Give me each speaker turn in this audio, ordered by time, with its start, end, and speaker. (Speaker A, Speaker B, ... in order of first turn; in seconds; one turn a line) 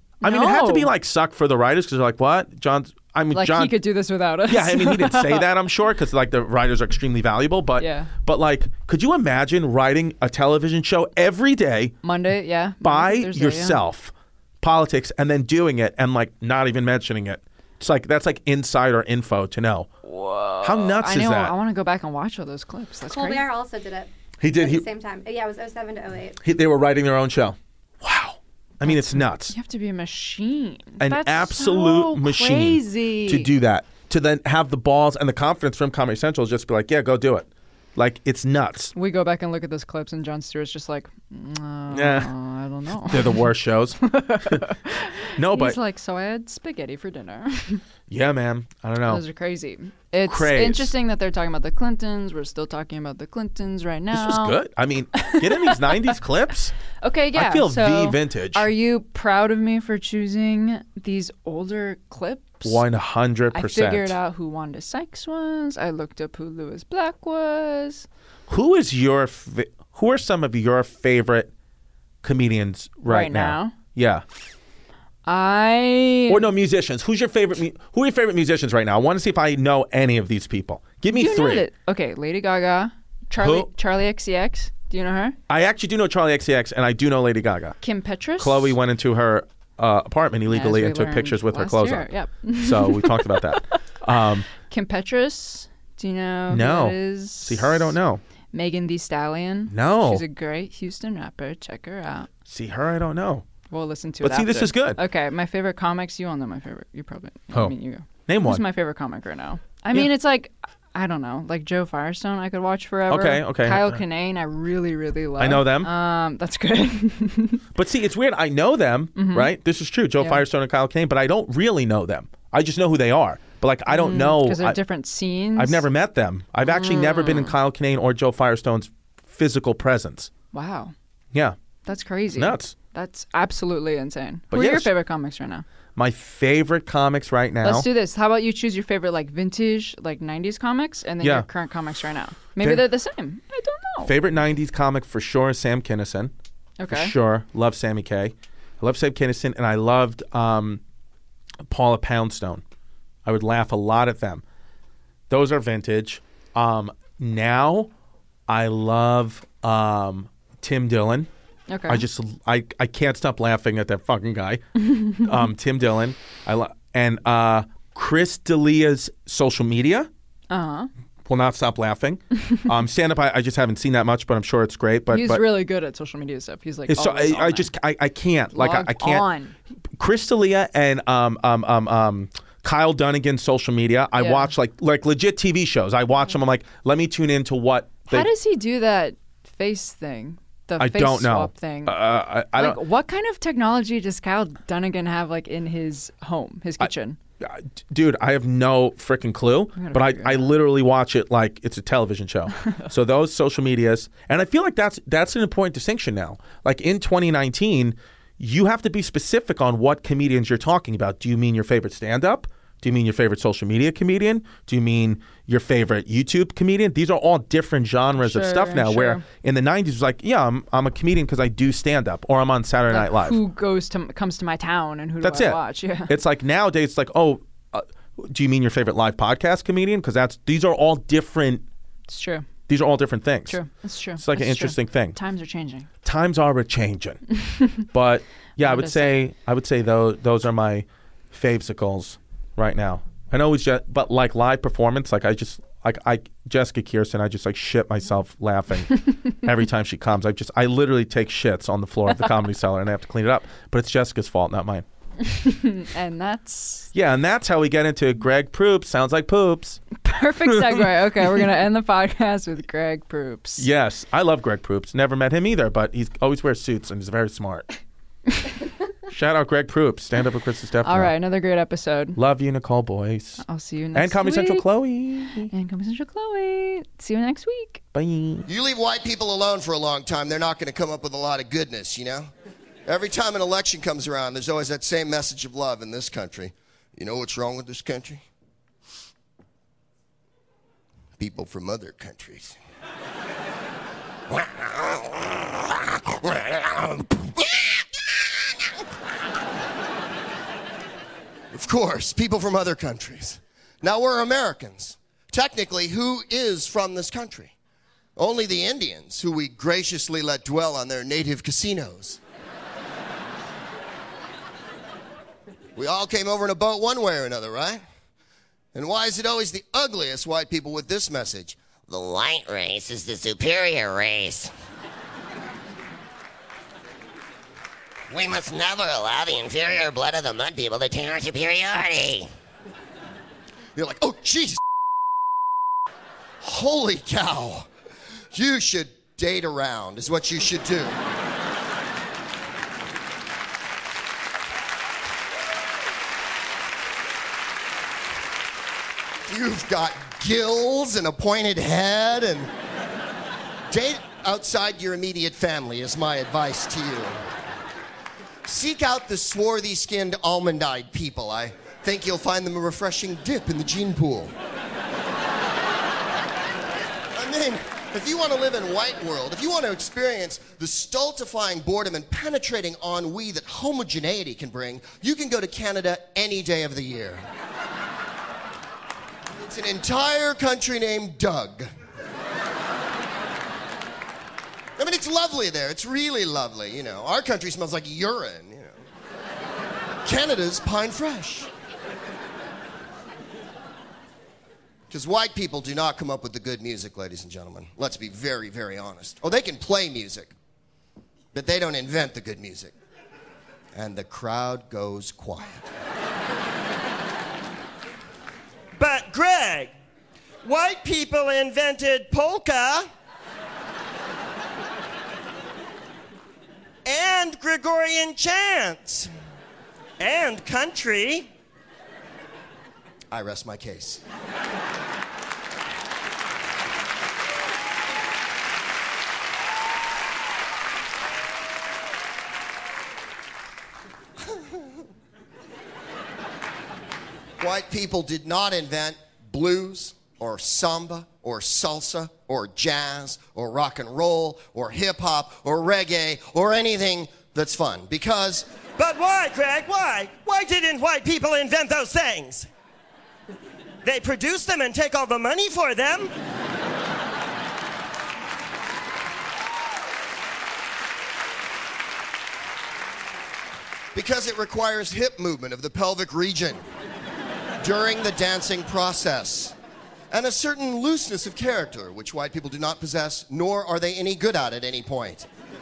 Speaker A: 0.2-3.8
Speaker B: 0.2-0.9
Speaker B: 3.3-5.5
Speaker A: 4.5-11.9
Speaker B: 7.8-8.1
Speaker B: 12.0-13.8
Speaker A: 12.8-19.9
Speaker B: 20.1-23.4
Speaker A: 20.6-21.6
Speaker C: 23.1-26.4
Speaker A: 24.4-24.9
Speaker A: 26.4-29.5
Speaker B: 28.9-33.5
Speaker A: 31.0-38.9
Speaker B: 39.0-43.5
Speaker A: 41.9-42.3
Speaker A: 43.0-44.7
Speaker B: 44.0-47.8
Speaker A: 45.4-45.8
Speaker A: 48.1-49.2
Speaker B: 49.1-54.6
Speaker A: 50.2-50.9
Speaker A: 54.1-56.8
Speaker B: 55.1-56.1
Speaker B: 57.0-62.8
Speaker A: 57.3-58.7
Speaker A: 62.6-64.2
Speaker B: 63.5-68.1
Speaker A: 68.5-71.5
Speaker A: 72.2-74.2
Speaker B: 73.1-73.8
Speaker B: 75.3-76.5
Speaker A: 76.3-81.7
Speaker B: 81.1-85.4
Speaker A: 83.4-83.7
Speaker A: 85.5-87.8
Speaker B: 87.8-88.8
Speaker A: 88.4-94.5
Speaker B: 90.5-93.8
Speaker B: 94.6-98.0
Speaker A: 96.5-98.2
Speaker B: 98.5-102.3
Speaker A: 99.7-100.2
Speaker A: 102.5-103.5
Speaker B: 103.7-117.6
Speaker A: 104.2-105.0
Speaker A: 108.3-108.6
Speaker A: 113.1-114.0
Speaker A: 115.4-115.9
Speaker A: 117.8-124.8
Speaker B: 119.2-119.5
Speaker B: 123.9-125.8
Speaker A: 125.6-130.3
Speaker B: 126.7-127.5
Speaker B: 130.5-130.9
Speaker B: 131.9-135.7
Speaker A: 132.3-132.7
Speaker A: 134.5-134.9
Speaker A: 136.0-137.9
Speaker B: 137.6-144.1
Speaker A: 141.2-141.5
Speaker A: 144.0-146.3
Speaker B: 146.8-147.1
Speaker A: 146.9-150.8
Speaker A: 151.7-152.6
Speaker A: 153.2-154.4
Speaker A: 155.3-157.9
Speaker A: 158.5-161.3
Speaker B: 161.7-162.0
Speaker A: 161.9-170.1
Speaker B: 164.9-165.2
Speaker B: 170.5-170.9
Speaker A: 171.3-175.4
Speaker B: 175.1-177.7
Speaker A: 176.9-179.3
Speaker B: 178.5-179.6
Speaker A: 180.0-188.3
Speaker B: 184.2-184.5
Speaker B: 188.1-192.0
Speaker A: 190.8-192.8
Speaker B: 192.5-197.2
Speaker A: 197.4-223.4
Speaker B: 199.8-200.6
Speaker B: 218.2-219.2
Speaker B: 222.9-226.1
Speaker A: 225.2-231.7
Speaker B: 232.1-232.5
Speaker A: 232.7-233.6
Speaker B: 233.5-235.9
Speaker A: 234.2-235.2
Speaker A: 236.0-237.2
Speaker B: 237.5-237.8
Speaker A: 237.8-254.8
Speaker B: 238.6-239.2
Speaker B: 255.3-256.9
Speaker A: 256.9-259.8
Speaker B: 260.0-263.7
Speaker A: 260.5-261.4
Speaker A: 263.6-267.7
Speaker A: 269.1-271.1
Speaker B: 270.8-272.2
Speaker A: 272.2-273.4
Speaker B: 273.4-274.7
Speaker A: 273.9-275.5
Speaker B: 275.4-277.8
Speaker A: 277.9-278.5
Speaker D: 278.5-282.3
Speaker D: 282.9-288.2
Speaker D: 291.2-292.6
Speaker D: 294.3-295.2
Speaker D: 296.1-297.9
Speaker D: 301.5-307.5
Speaker D: 308.2-312.2
Speaker D: 315.8-317.8
Speaker D: 318.7-321.6
Speaker E: 321.9-324.5
Speaker E: 328.1-332.3
Speaker D: 333.8-334.6
Speaker D: 336.4-337.7
Speaker D: 338.3-341.0
Speaker D: 349.3-352.5
Speaker D: 353.7-357.1
Speaker D: 358.4-364.3
Speaker D: 367.1-377.2
Speaker D: 379.3-381.7
Speaker D: 384.8-388.8
Speaker D: 390.1-391.5
Speaker D: 394.9-400.3
Speaker D: 401.3-402.7
Speaker D: 403.8-405.6
Speaker F: 408.8-409.7
Speaker F: 410.4-412.9
Speaker F: 416.9-419.1
Speaker F: 420.0-421.3
Speaker D: 423.1-424.0
Speaker D: 437.4-448.5
Speaker F: 448.8-452.5
Speaker F: 453.8-456.1
Speaker D: 463.9-466.6
Speaker D: 467.6-469.6
Speaker D: 470.1-475.3